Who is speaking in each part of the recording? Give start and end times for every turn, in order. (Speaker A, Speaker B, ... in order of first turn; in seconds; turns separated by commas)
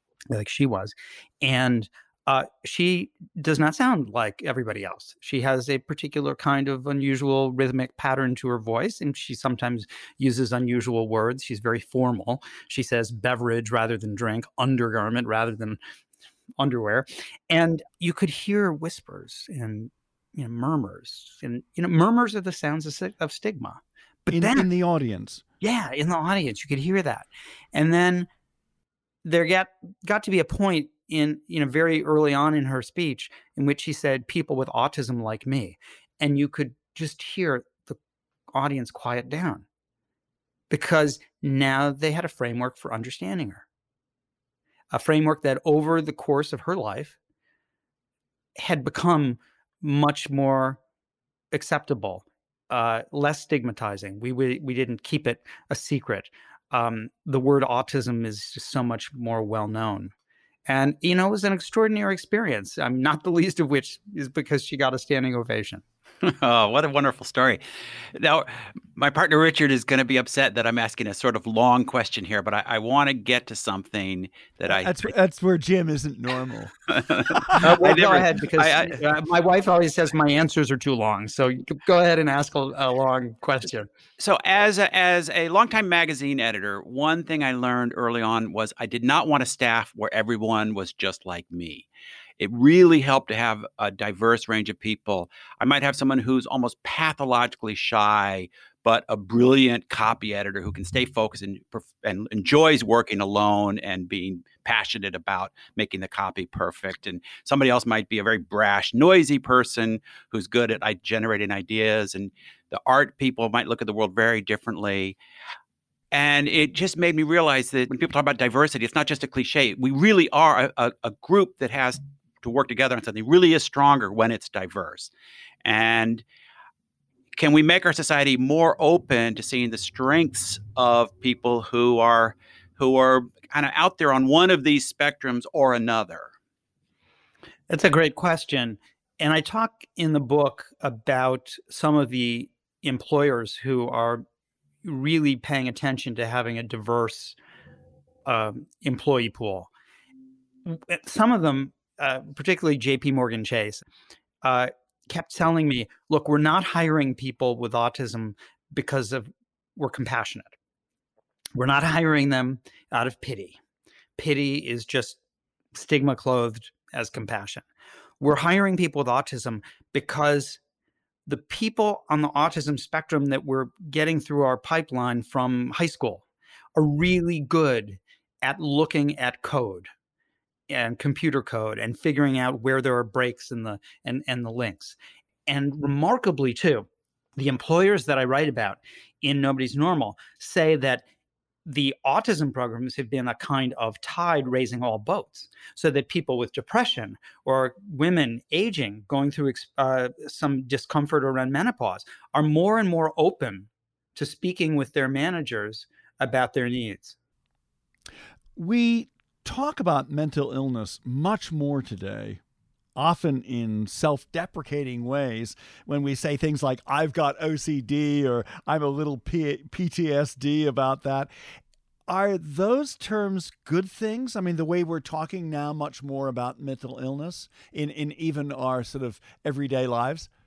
Speaker A: 0.3-15.8, Speaker A: 16.6-24.7, Speaker B: 24.3-25.4, Speaker A: 25.6-28.3, Speaker A: 29.2-38.0, Speaker A: 38.5-39.6, Speaker A: 40.7-43.6, Speaker A: 44.9-47.1, Speaker A: 48.6-50.8, Speaker A: 51.5-60.1, Speaker A: 60.7-65.8, Speaker C: 66.2-67.6, Speaker C: 68.1-75.1, Speaker B: 74.7-76.8, Speaker C: 76.9-79.0, Speaker B: 77.3-77.6, Speaker A: 77.6-83.9, Speaker C: 84.2-91.9, Speaker C: 92.4-115.2, Speaker C: 116.1-125.1, Speaker C: 125.6-126.2, Speaker C: 127.3-136.3, Speaker A: 137.7-144.2, Speaker A: 144.8-147.4, Speaker A: 148.2-149.7, Speaker A: 150.7-153.8, Speaker A: 154.4-160.5, Speaker A: 161.6-163.6, Speaker A: 164.2-165.2, Speaker A: 165.7-167.7, Speaker A: 168.2-170.6, Speaker A: 171.2-176.2, Speaker A: 176.7-179.9, Speaker A: 180.7-184.9, Speaker A: 185.5-191.0, Speaker A: 191.7-207.2, Speaker B: 208.6-212.4, Speaker B: 212.9-221.3, Speaker B: 222.1-230.3